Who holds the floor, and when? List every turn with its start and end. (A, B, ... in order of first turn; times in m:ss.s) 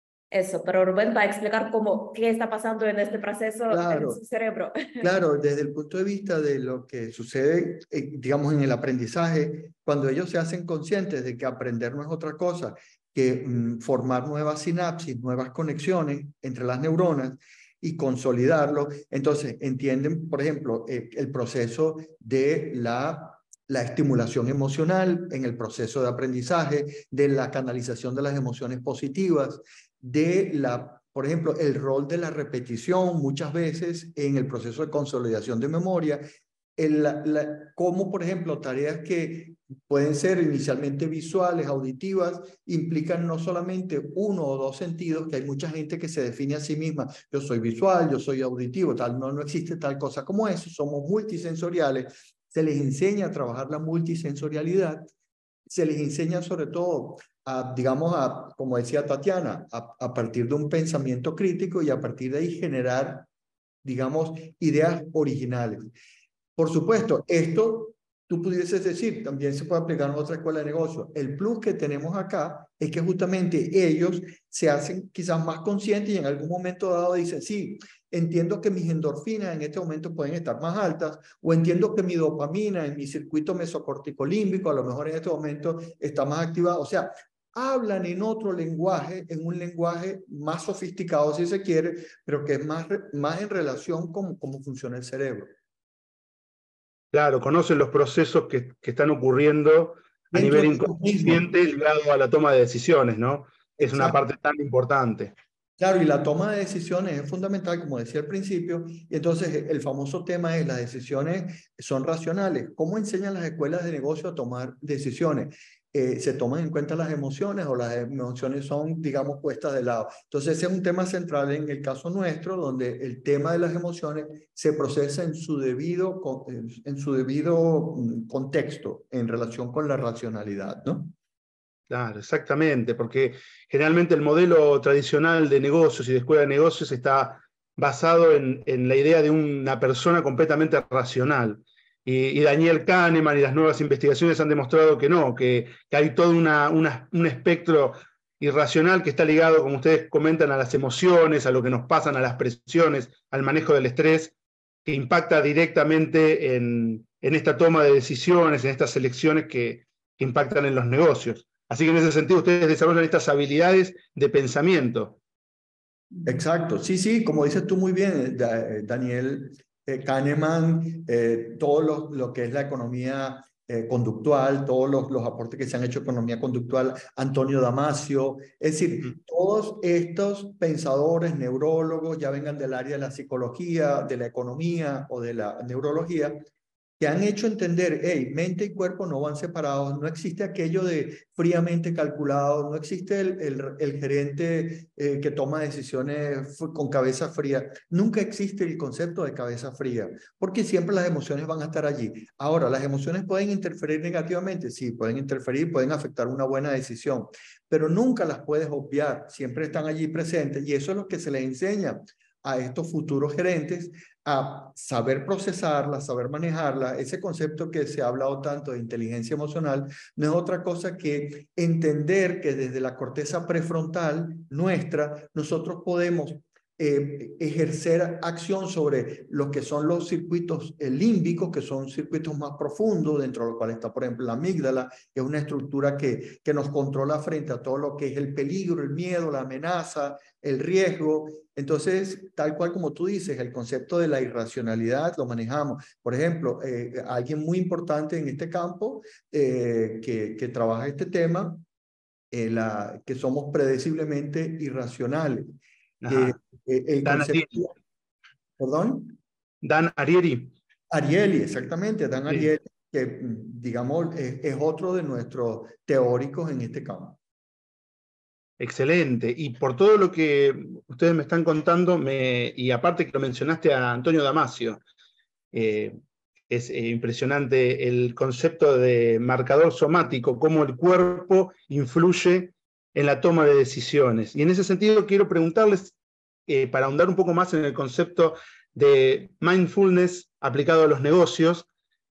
0:00.3-0:05.1 A
0:03.7-0:04.2 B
0:05.0-0:36.2 B
0:36.8-0:55.1 B
0:55.7-1:03.3 B
1:03.8-1:05.9 B
1:06.6-1:35.5 B
1:37.1-1:45.3 C
1:40.3-1:41.5 B
1:43.8-1:44.2 B
1:45.8-2:11.1 B
2:11.9-2:34.3 C
2:34.8-2:45.2 C
2:46.2-3:06.4 B
3:07.0-4:11.6 B
4:12.3-4:15.6 B
4:16.0-4:16.4 C
4:16.1-4:17.7 B
4:17.0-4:17.6 C
4:18.6-4:19.2 B
4:19.6-4:20.5 C
4:20.9-4:27.2 B
4:28.6-4:34.8 C
4:35.5-4:36.0 C
4:36.5-4:46.0 C
4:46.5-4:51.7 C